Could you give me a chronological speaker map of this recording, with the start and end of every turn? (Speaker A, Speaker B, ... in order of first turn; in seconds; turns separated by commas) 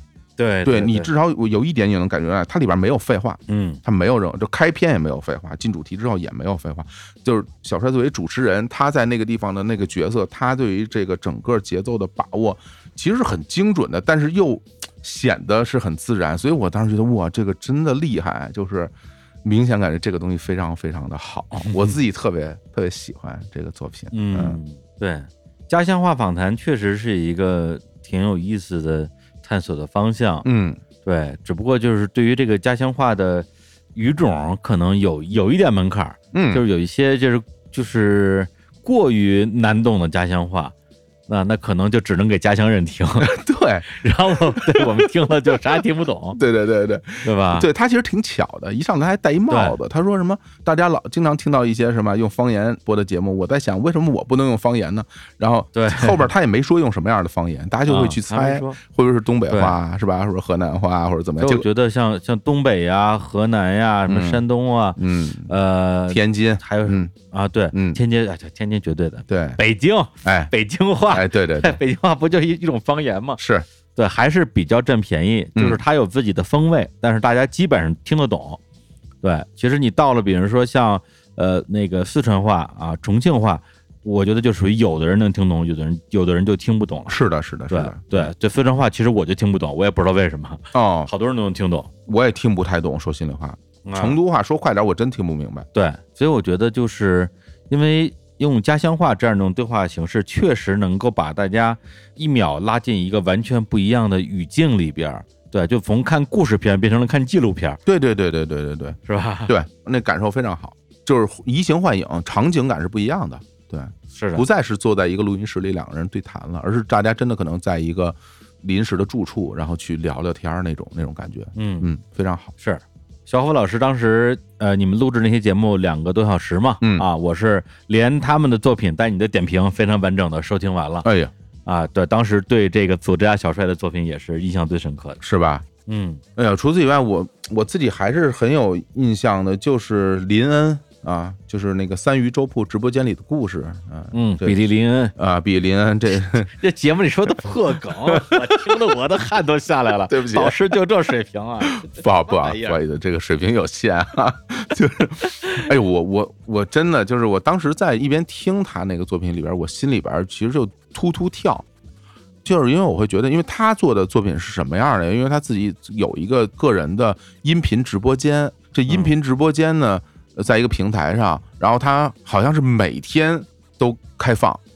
Speaker A: 0.4-1.1, Speaker B: 0.6-18.9, Speaker A: 3.5-3.8, Speaker B: 19.4-24.6, Speaker A: 21.6-21.9, Speaker A: 24.1-30.4, Speaker B: 30.4-30.8, Speaker A: 31.0-40.7, Speaker B: 36.3-36.6, Speaker A: 41.3-43.3, Speaker B: 43.2-45.6, Speaker A: 43.9-46.4, Speaker B: 46.3-61.6, Speaker A: 47.2-47.7, Speaker A: 49.5-49.8, Speaker A: 55.7-56.3, Speaker A: 57.9-58.8, Speaker A: 59.5-59.8, Speaker A: 61.4-73.4, Speaker B: 64.1-64.4, Speaker B: 65.0-65.5, Speaker B: 66.1-67.1, Speaker B: 67.7-68.0, Speaker B: 69.3-69.6, Speaker B: 70.2-70.5, Speaker B: 71.1-71.8, Speaker B: 73.4-73.7, Speaker A: 74.0-78.6, Speaker B: 75.5-75.8, Speaker A: 79.2-87.2, Speaker B: 87.1-88.3, Speaker A: 87.7-91.9, Speaker B: 90.7-91.1, Speaker B: 92.1-95.7, Speaker A: 93.8-94.2, Speaker A: 95.7-107.8, Speaker B: 107.8-122.5, Speaker A: 109.1-109.5, Speaker A: 114.1-114.4, Speaker A: 121.5-121.9, Speaker A: 122.6-131.1, Speaker B: 126.8-127.1, Speaker B: 131.0-131.3, Speaker A: 131.7-135.2, Speaker B: 135.2-135.7, Speaker A: 135.8-136.2, Speaker B: 136.3-144.6, Speaker A: 144.1-145.1, Speaker B: 145.2-146.5, Speaker A: 146.5-152.8, Speaker B: 148.0-148.8, Speaker B: 150.1-150.7, Speaker B: 151.6-161.7, Speaker B: 162.4-174.6